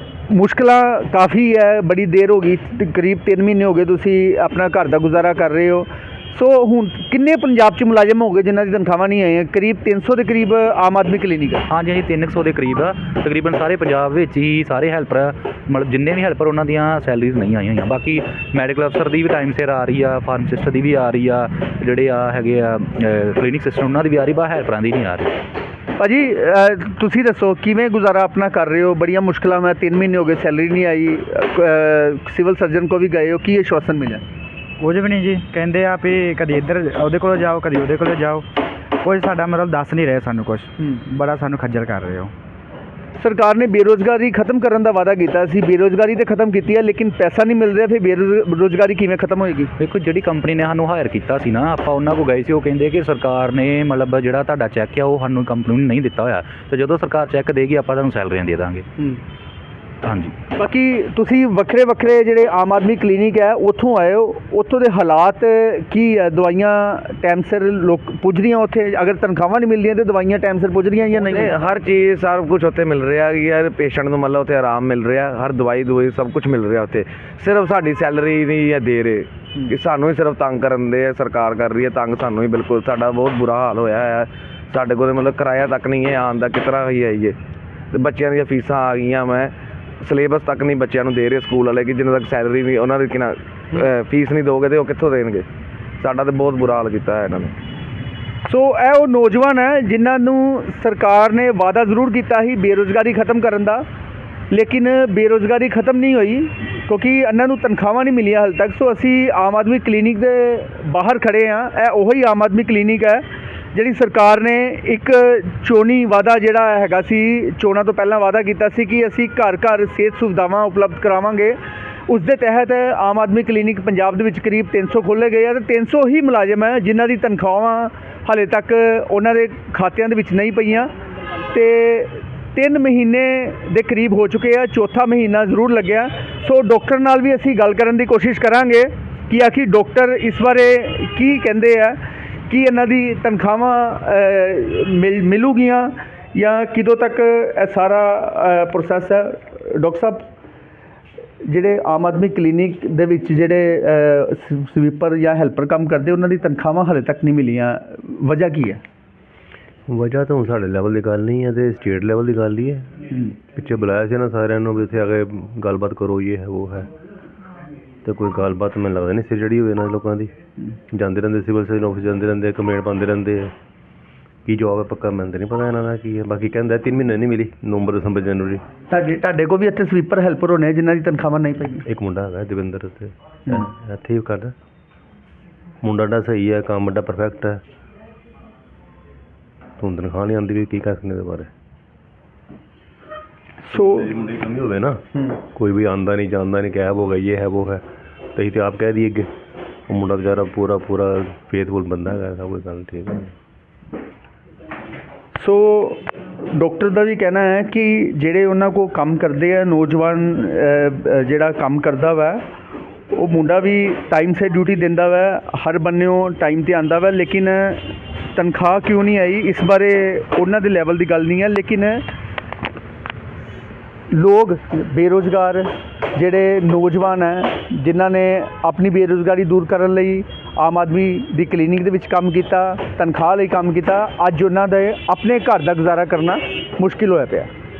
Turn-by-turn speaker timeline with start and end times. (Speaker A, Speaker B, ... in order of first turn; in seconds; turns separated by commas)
Speaker A: 0.3-11.6, Speaker B: 11.7-25.4, Speaker A: 26.0-34.2, Speaker C: 34.8-38.4, Speaker C: 39.0-42.3, Speaker A: 43.2-49.7, Speaker B: 49.8-58.9, Speaker B: 60.0-60.3, Speaker A: 60.5-71.5, Speaker D: 71.2-87.3, Speaker D: 87.9-95.5, Speaker D: 96.0-97.5, Speaker A: 98.5-103.8, Speaker A: 104.5-130.9, Speaker A: 131.5-142.0, Speaker A: 142.5-150.2, Speaker A: 151.5-158.8, Speaker E: 159.9-166.9, Speaker E: 168.0-170.3, Speaker E: 170.9-173.5, Speaker E: 174.4-178.6, Speaker A: 178.9-181.8, Speaker E: 181.8-184.5, Speaker E: 185.8-187.6, Speaker E: 189.8-191.5, Speaker A: 193.6-194.1, Speaker E: 193.8-197.8, Speaker E: 198.3-199.3, Speaker E: 199.9-203.3, Speaker A: 205.4-206.0, Speaker A: 206.5-212.4, Speaker A: 213.1-222.0, Speaker A: 224.1-237.5